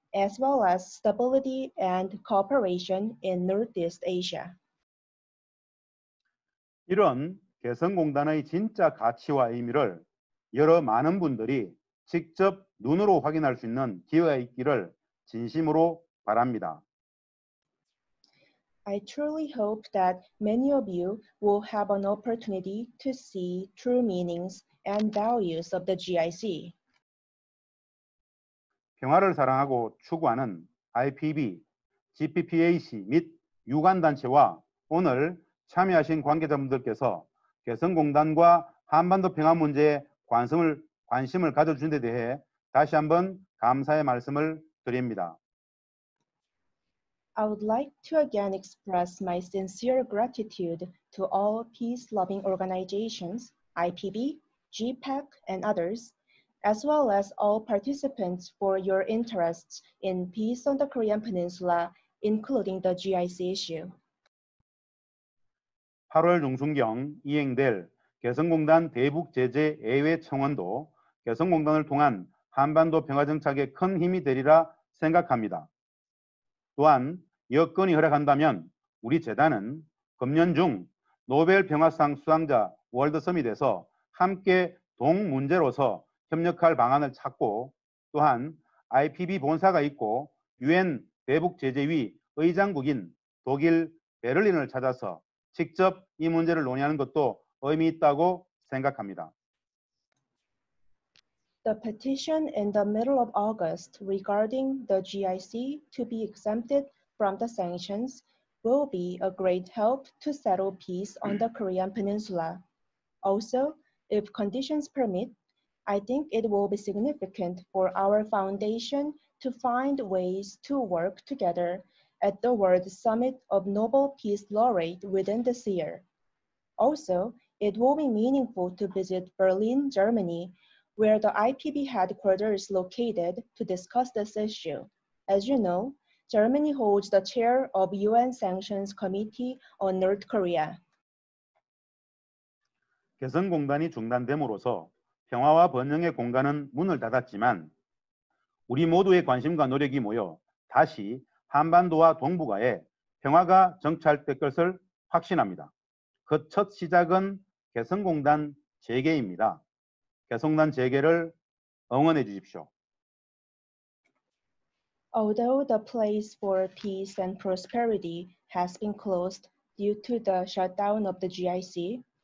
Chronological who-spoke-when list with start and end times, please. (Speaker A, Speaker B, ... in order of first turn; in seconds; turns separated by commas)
Speaker A: 0.1-4.6, Speaker B: 6.9-16.8, Speaker A: 18.9-26.8, Speaker B: 29.0-31.6, Speaker B: 32.1-45.4, Speaker A: 47.4-64.0, Speaker B: 66.1-75.7, Speaker B: 76.8-99.3, Speaker A: 101.6-112.6, Speaker A: 113.2-115.3, Speaker A: 115.9-126.0, Speaker A: 126.8-140.8, Speaker B: 143.2-147.7, Speaker B: 148.7-155.7, Speaker B: 156.3-159.6, Speaker B: 160.3-161.3, Speaker B: 161.9-162.7, Speaker A: 165.1-172.0